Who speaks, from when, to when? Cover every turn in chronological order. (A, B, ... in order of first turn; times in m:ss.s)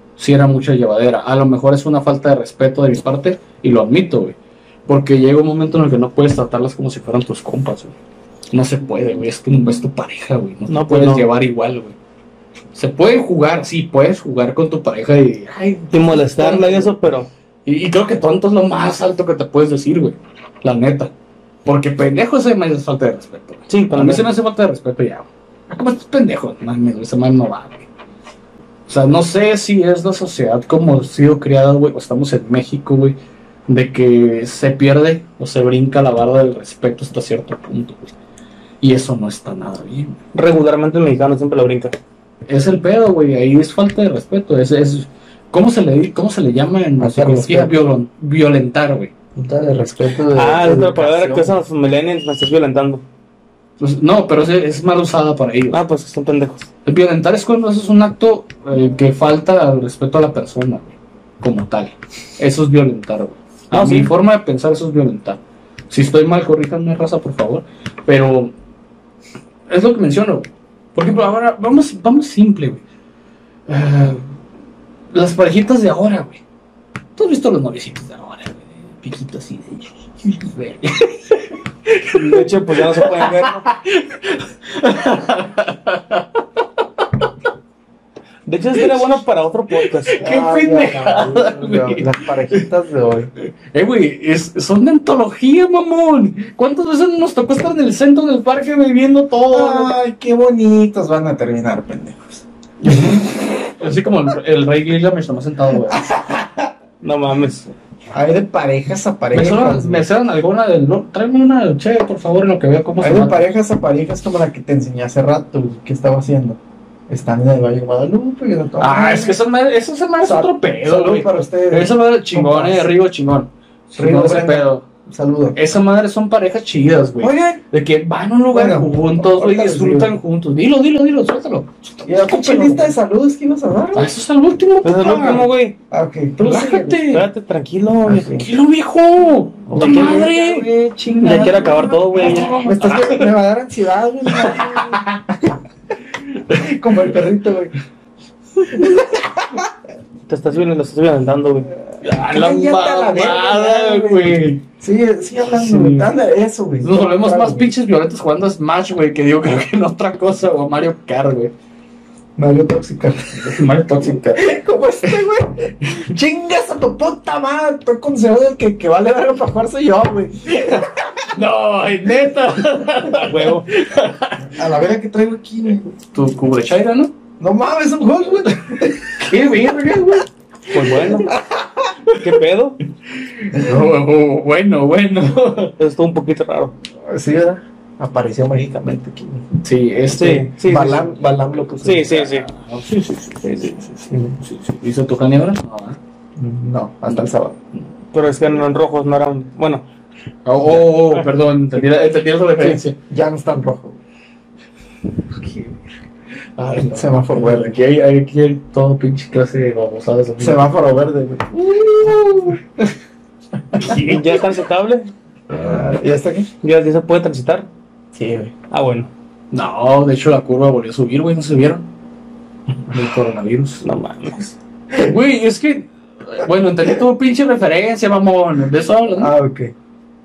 0:00.2-0:04.4 A
0:04.9-0:07.9 A
0:08.5-0:12.0 A
0:10.7-0:11.3 B
0:12.8-0:16.9 A
0:15.9-0:17.3 B
0:17.7-0:21.1 A
0:21.6-0:27.9 A
0:23.7-0:24.3 B
0:28.9-0:33.2 A
0:33.7-0:38.1 A
0:38.8-0:40.2 A
0:40.3-0:42.0 B
0:42.5-0:49.1 A
0:47.0-0:47.8 C
0:49.4-0:51.6 C
0:50.3-0:53.0 B
0:53.8-0:55.8 A
0:55.7-0:56.7 B
0:56.8-1:08.5 A
1:03.7-1:04.1 B
1:09.7-1:12.8 A
1:13.7-1:14.2 A
1:15.1-1:16.4 A
1:17.2-1:26.3 A
1:22.1-1:23.6 B
1:28.5-1:30.2 B
1:29.9-1:32.7 A
1:30.2-1:33.3 C
1:33.7-1:40.0 A
1:39.5-1:43.3 C
1:42.8-1:46.2 A
1:45.9-1:46.5 C
1:47.0-1:47.7 B
1:48.1-1:50.0 C
1:49.3-1:53.4 A
1:53.0-1:59.4 C
1:58.8-2:04.8 A
2:00.2-2:02.9 C
2:04.0-2:05.6 C
2:05.6-2:12.9 A
2:07.2-2:07.6 C
2:08.5-2:10.1 C
2:12.1-2:14.1 C
2:14.0-2:15.5 A
2:14.8-2:15.8 B
2:15.0-2:17.0 C
2:16.4-2:17.3 A
2:17.0-2:18.4 B
2:18.1-2:18.4 C
2:18.3-2:20.7 A
2:19.7-2:25.0 C
2:19.8-2:20.3 B
2:21.2-2:22.6 B
2:22.1-2:23.3 A
2:24.3-2:25.2 A
2:26.5-2:27.7 C
2:28.7-2:29.5 C
2:30.3-2:31.7 B
2:32.0-2:34.6 A
2:32.0-2:37.7 C
2:35.5-2:36.1 A
2:36.8-2:41.5 A
2:42.4-2:43.6 C
2:43.4-2:44.6 A
2:44.3-2:50.9 C
2:51.3-2:54.6 A
2:53.2-2:53.7 B
2:54.4-2:55.9 C
2:56.1-2:57.1 A
2:57.4-2:59.4 C
2:59.2-3:00.3 A
3:00.7-3:01.3 B
3:00.8-3:01.1 A
3:01.3-3:01.6 C
3:02.2-3:02.8 B
3:03.2-3:05.8 A
3:05.8-3:06.8 B
3:07.1-3:09.5 C
3:09.6-3:10.5 A
3:10.1-3:11.1 B
3:10.6-3:12.1 C
3:11.8-3:12.5 B
3:11.8-3:16.0 A
3:16.4-3:17.6 C
3:18.1-3:19.9 B
3:20.4-3:23.0 A
3:22.6-3:24.0 C
3:25.4-3:25.7 A
3:26.6-3:30.7 A
3:26.8-3:27.8 C
3:30.4-3:32.6 C
3:33.8-3:34.2 C
3:33.8-3:35.1 B
3:35.5-3:36.5 C
3:36.6-3:37.7 B
3:38.2-3:38.5 C
3:38.7-3:39.1 B
3:39.5-3:41.8 A
3:42.9-3:43.8 A
3:43.8-3:44.5 B
3:45.0-3:49.3 A
3:49.2-3:49.7 C